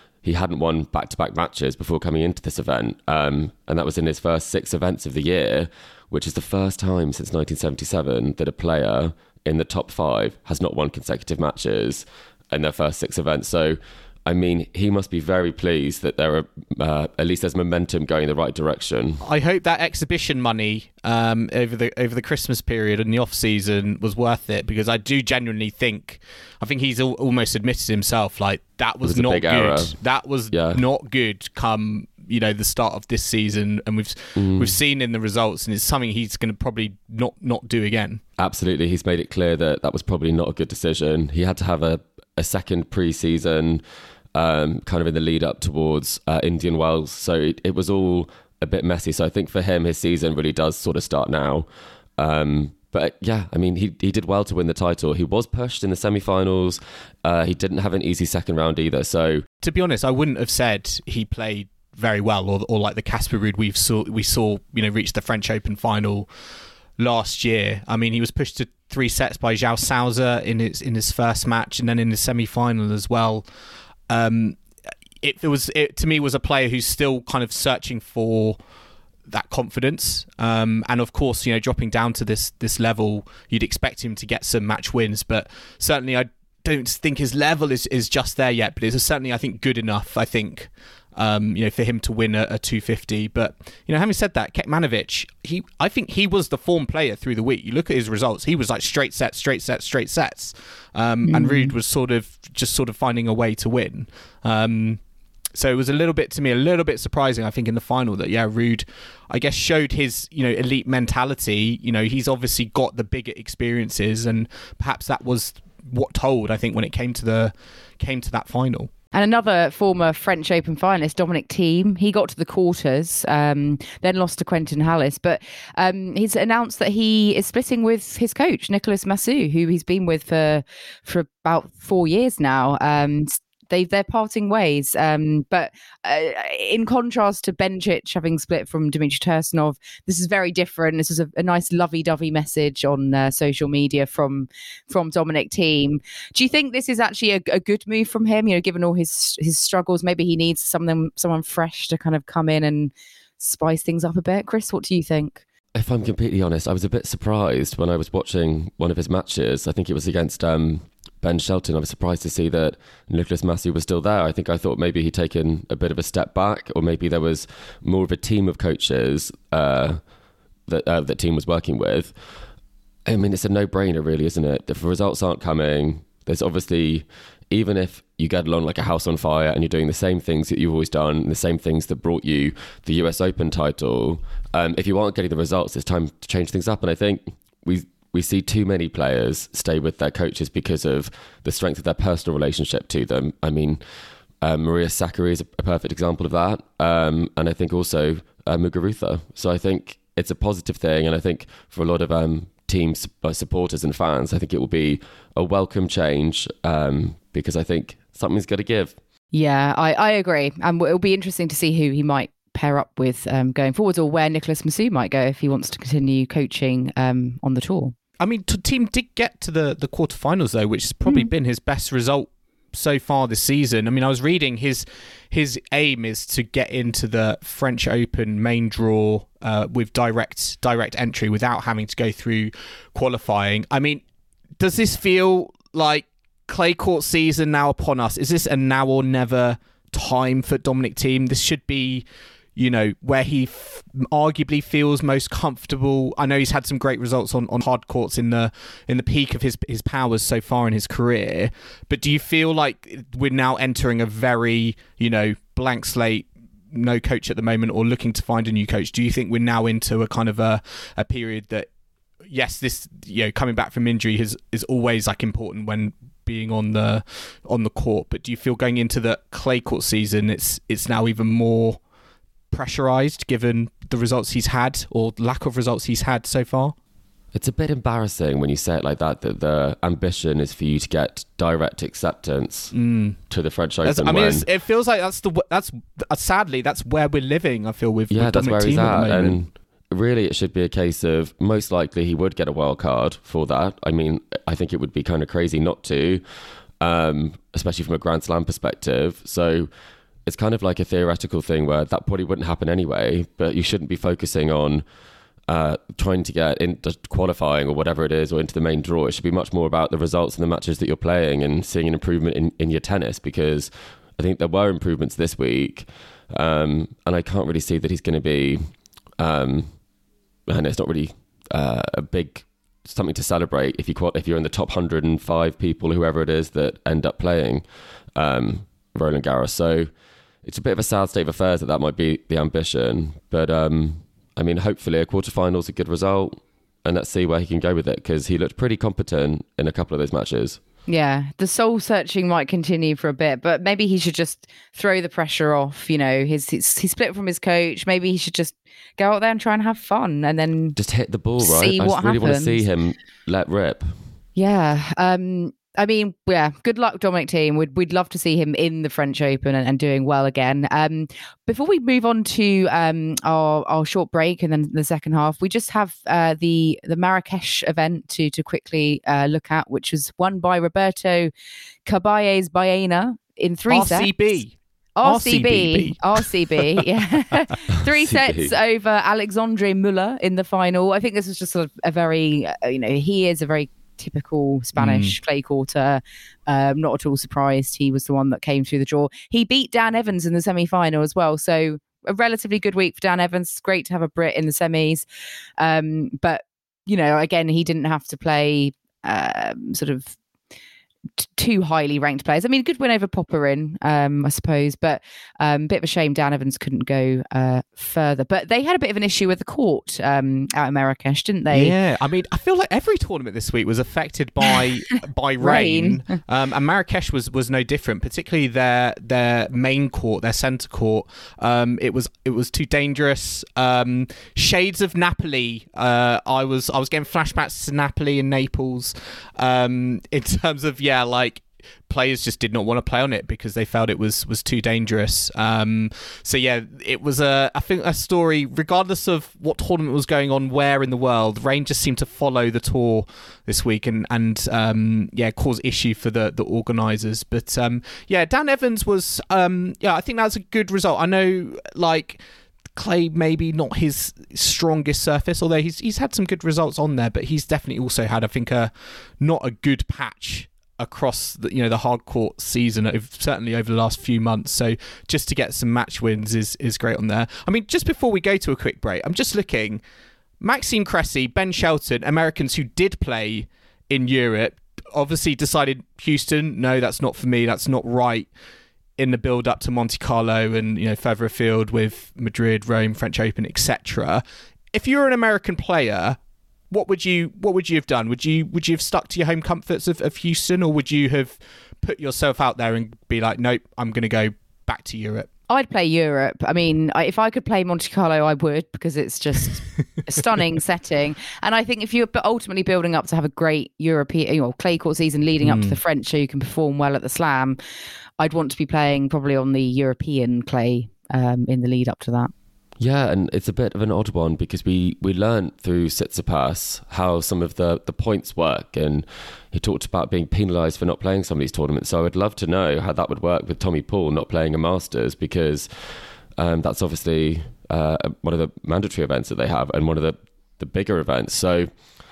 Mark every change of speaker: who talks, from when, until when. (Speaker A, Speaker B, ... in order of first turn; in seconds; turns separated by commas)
Speaker A: 0.2-19.2, Speaker B: 19.2-38.2, Speaker A: 29.0-30.0, Speaker A: 30.5-30.9, Speaker A: 34.4-34.8, Speaker A: 38.4-43.8, Speaker A: 44.3-59.5, Speaker B: 59.6-66.3, Speaker B: 67.0-73.5, Speaker B: 74.1-74.6, Speaker B: 75.2-78.6, Speaker B: 79.3-105.0, Speaker C: 101.3-101.8, Speaker B: 105.5-118.9, Speaker C: 119.1-155.4, Speaker A: 155.7-170.0, Speaker A: 170.7-172.1, Speaker A: 173.1-193.8, Speaker A: 194.4-209.0, Speaker C: 209.3-217.9, Speaker B: 218.2-234.0, Speaker C: 221.1-221.3, Speaker B: 234.6-261.7, Speaker B: 262.3-271.8, Speaker B: 272.5-276.8, Speaker A: 277.3-282.7, Speaker B: 282.7-283.2, Speaker A: 283.3-284.5, Speaker B: 283.8-289.4, Speaker A: 288.1-296.2, Speaker A: 296.8-299.7, Speaker A: 300.3-304.8, Speaker A: 305.5-319.7, Speaker A: 320.5-327.6, Speaker A: 328.2-329.9, Speaker A: 330.4-340.6, Speaker C: 340.9-350.8, Speaker A: 350.8-353.9, Speaker C: 351.4-352.6, Speaker C: 354.4-371.3, Speaker C: 371.9-374.1, Speaker B: 373.7-376.3, Speaker C: 375.0-395.1, Speaker A: 377.8-378.5, Speaker B: 384.8-385.2, Speaker C: 395.6-400.2, Speaker C: 401.2-411.8, Speaker B: 411.5-452.2, Speaker C: 415.4-416.0, Speaker B: 452.8-469.8, Speaker B: 470.4-478.3, Speaker B: 479.0-486.2, Speaker B: 486.7-495.3, Speaker C: 495.5-507.6, Speaker B: 505.4-505.8, Speaker C: 508.2-512.3, Speaker A: 512.8-531.7